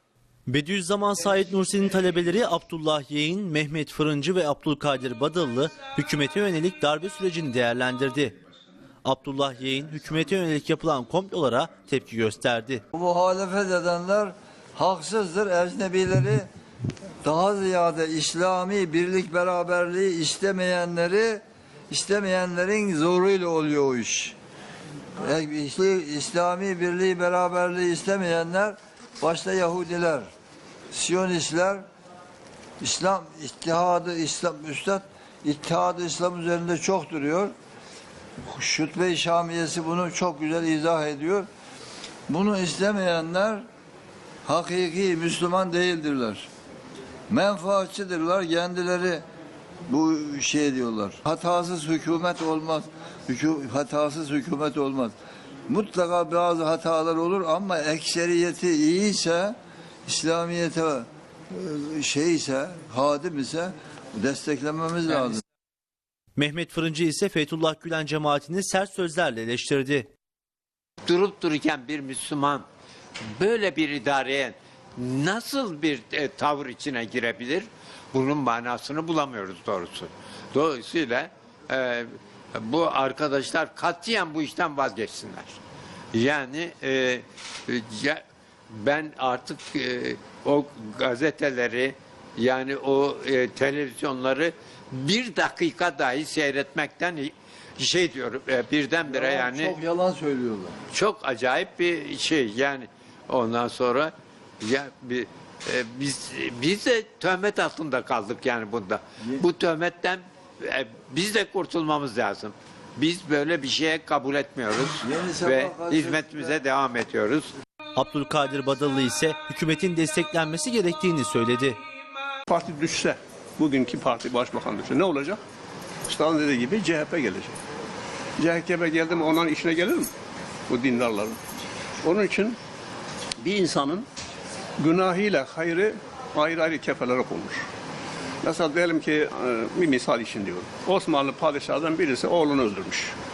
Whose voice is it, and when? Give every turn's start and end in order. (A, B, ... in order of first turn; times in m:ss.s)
0:00.5-0:08.4 A
0:09.0-0:12.8 A
0:12.9-0:16.5 B
0:17.2-0:24.4 B
0:25.2-0:30.3 B
0:30.9-0:31.8 B
0:32.8-0:37.5 B
0:38.5-0:41.5 B
0:42.3-0:43.6 B
0:44.5-0:46.5 B
0:47.3-0:49.2 B
0:49.9-0:55.2 B
0:55.7-0:59.6 B
1:00.1-1:05.4 B
1:06.4-1:10.1 A
1:11.0-1:12.7 C
1:13.2-1:25.6 C
1:26.1-1:39.8 C
1:39.0-1:40.8 B
1:40.9-1:57.5 C
1:55.0-1:56.6 B
1:58.0-2:01.8 A
2:02.5-2:05.4 D
2:06.1-2:07.6 D
2:08.4-2:10.1 D
2:10.7-2:11.4 D
2:12.0-2:12.6 D
2:13.4-2:14.1 D
2:14.8-2:17.6 D
2:18.4-2:23.2 D